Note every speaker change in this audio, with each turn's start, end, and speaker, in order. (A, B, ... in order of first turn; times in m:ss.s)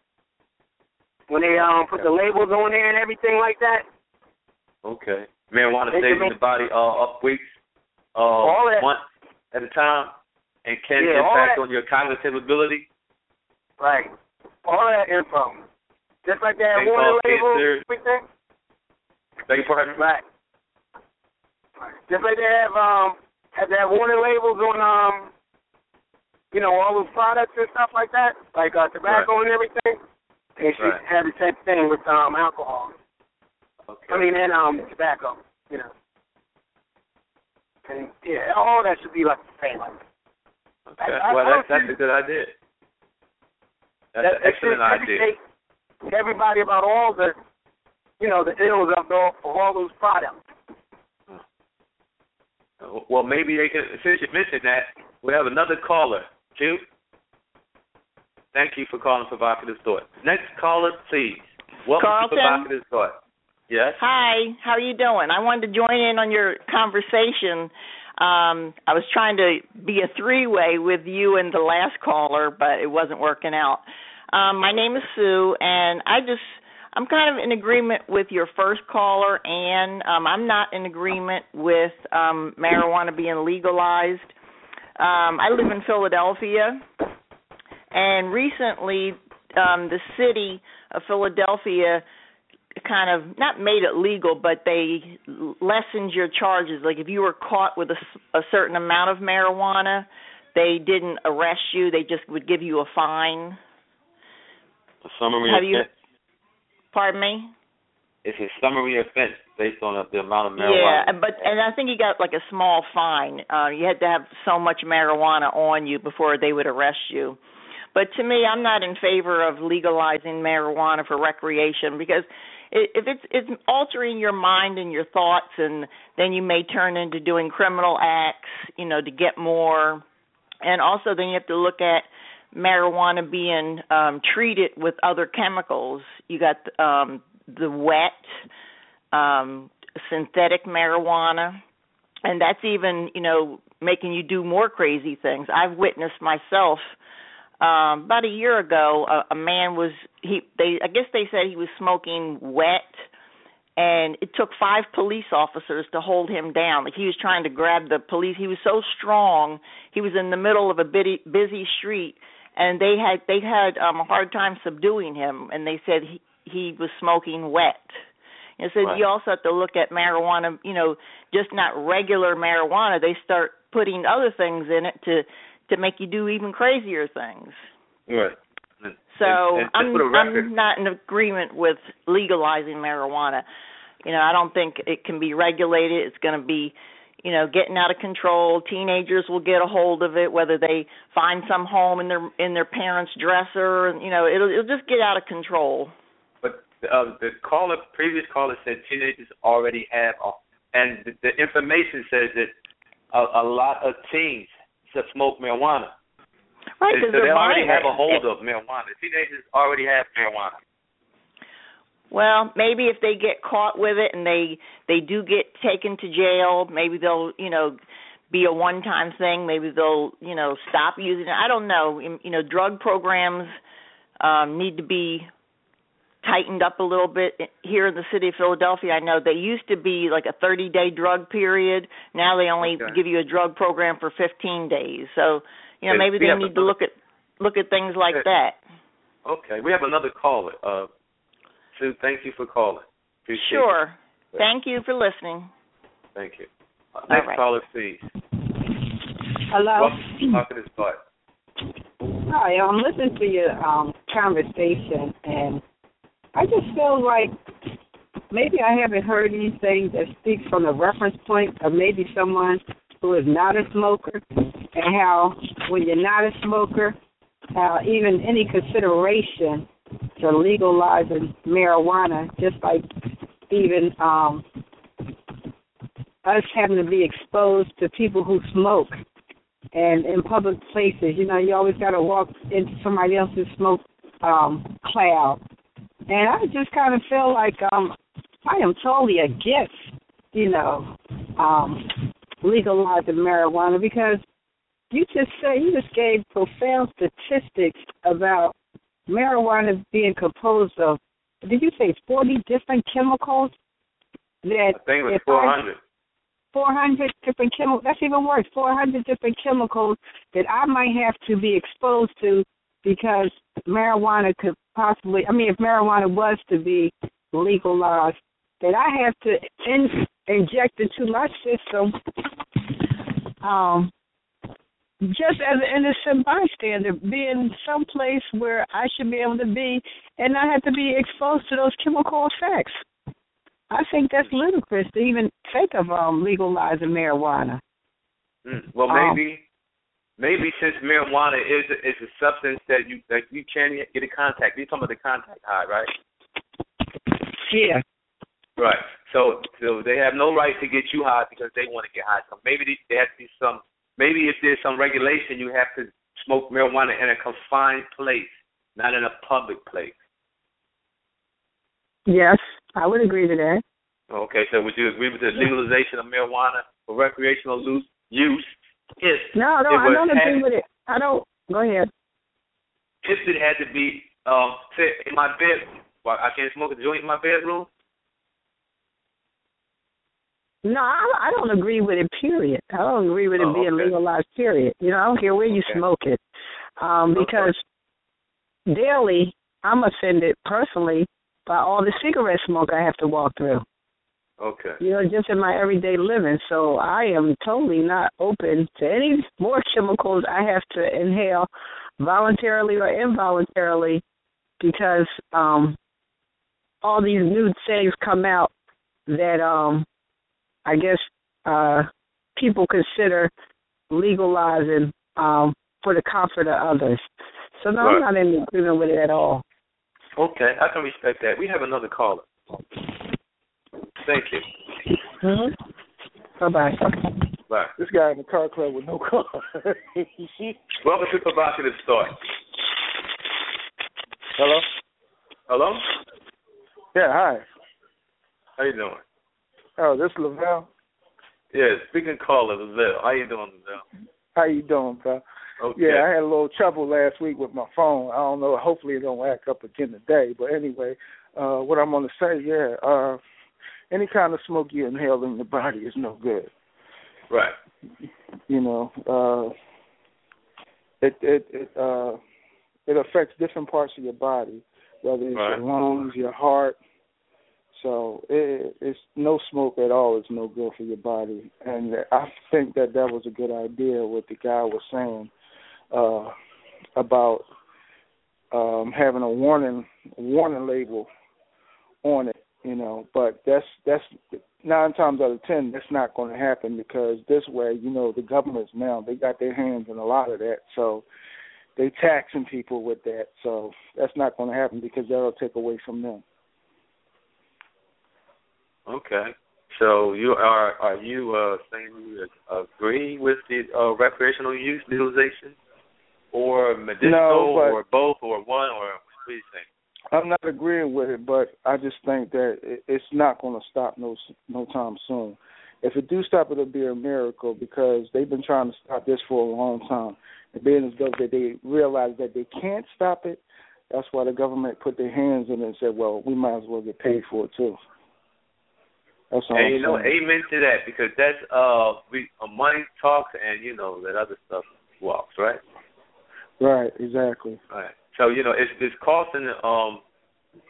0:01.3-0:03.8 A
0:04.8-0:07.5 B
0:05.9-0:06.3 A
0:08.1-0:09.0 B
0:08.4-0:08.9 A
0:09.5-0:10.1 B
0:10.6-0:12.9 B
0:11.0-0:11.6 A
0:13.8-0:14.1 A
0:14.6-0:15.6 A
0:16.2-0:18.2 A
0:16.7-0:17.8 B
0:19.5-0:20.0 B
0:20.0-0:20.2 A
0:21.8-0:25.3 A
0:26.5-0:30.0 A
0:30.6-0:32.9 A
0:33.9-0:34.3 B
0:34.1-0:35.9 A
0:37.9-0:40.0 A
0:40.9-0:42.5 B
0:41.0-0:41.9 A
0:44.1-0:45.3 B
0:44.2-0:45.4 A
0:46.1-0:47.4 A
0:48.2-0:50.4 A
0:52.8-0:56.8 B
0:58.5-1:03.2 B
1:02.0-1:02.7 C
1:03.7-1:04.0 B
1:04.0-1:24.3 C
1:25.0-1:26.8 C
1:27.9-1:32.0 C
1:32.8-1:43.6 C
1:45.0-1:45.9 B
1:45.4-1:45.9 C
1:46.9-1:47.5 C
1:48.2-1:51.5 B
1:50.6-1:57.4 C
1:57.9-2:10.0 C
2:10.6-2:18.3 C
2:19.1-2:21.6 C
2:22.2-2:26.9 C
2:27.6-2:33.0 C
2:33.8-2:48.0 C
2:48.6-2:57.6 C
2:58.1-3:00.5 B
2:59.1-3:03.4 C
3:04.0-3:15.9 C
3:16.4-3:22.5 B
3:23.1-3:25.9 B
3:26.8-3:28.2 C
3:26.9-3:30.5 B
3:32.1-3:37.8 C
3:38.3-3:43.6 C
3:44.2-3:45.3 C
3:46.2-3:58.6 C
3:52.6-3:53.0 B
3:55.9-3:56.7 B
3:59.2-4:00.9 B
4:01.7-4:03.7 B
4:03.3-4:05.5 C
4:06.2-4:08.0 B
4:07.1-4:07.4 C
4:09.5-4:10.4 D
4:09.7-4:11.0 B
4:12.2-4:15.6 D
4:16.3-4:17.4 D
4:18.3-4:27.0 D
4:27.5-4:32.9 D
4:33.5-4:34.4 D
4:36.2-4:39.0 D
4:39.7-4:45.4 D
4:46.1-4:54.2 D
4:54.9-4:58.5 D
4:59.1-5:03.5 D
5:04.4-5:05.6 D
5:04.7-5:05.8 B
5:06.5-5:22.0 D
5:23.4-5:23.9 D
5:25.0-5:32.8 D
5:33.7-5:37.6 D
5:38.4-5:39.4 B
5:38.9-5:39.2 D
5:40.2-5:45.9 B
5:47.4-5:47.8 D
5:48.6-6:00.0 B
6:02.1-6:03.6 D
6:04.1-6:10.4 B
6:09.3-6:11.9 D
6:13.0-6:17.7 B
6:20.6-6:26.2 D
6:23.4-6:23.9 B
6:25.5-6:25.8 B
6:26.8-6:27.6 D
6:27.1-6:27.5 B
6:28.7-6:33.6 D
6:34.4-6:34.8 B
6:34.8-6:41.5 D
6:42.0-6:44.0 D
6:44.6-6:45.8 D
6:46.8-6:48.5 D
6:49.1-6:49.8 D
6:50.6-6:53.3 D
6:53.9-6:57.0 D
6:57.6-6:59.4 D
7:00.2-7:02.3 B
7:04.0-7:04.4 B
7:05.2-7:05.5 D
7:06.4-7:07.2 D
7:07.8-7:10.6 E
7:10.8-7:12.2 B
7:14.4-7:14.6 E
7:15.5-7:15.9 B
7:16.9-7:17.4 E
7:18.6-7:19.0 B
7:19.8-7:20.7 E
7:21.5-7:23.8 B
7:24.3-7:25.2 E
7:25.6-7:26.0 B
7:25.7-7:33.2 E
7:33.9-7:36.5 E
7:38.5-7:39.5 E
7:41.0-7:42.2 E
7:42.9-7:46.8 E
7:45.3-7:45.6 B
7:47.7-7:55.3 E
7:55.9-7:56.3 E
7:57.0-7:57.4 E
7:58.5-8:01.1 E
8:02.0-8:11.0 E
8:11.8-8:16.2 E
8:18.9-8:25.6 B
8:26.3-8:29.6 B
8:27.0-8:27.8 E
8:30.1-8:47.8 E
8:49.3-8:50.1 E
8:49.5-8:55.6 B
8:56.6-8:57.6 E
8:57.7-9:00.0 B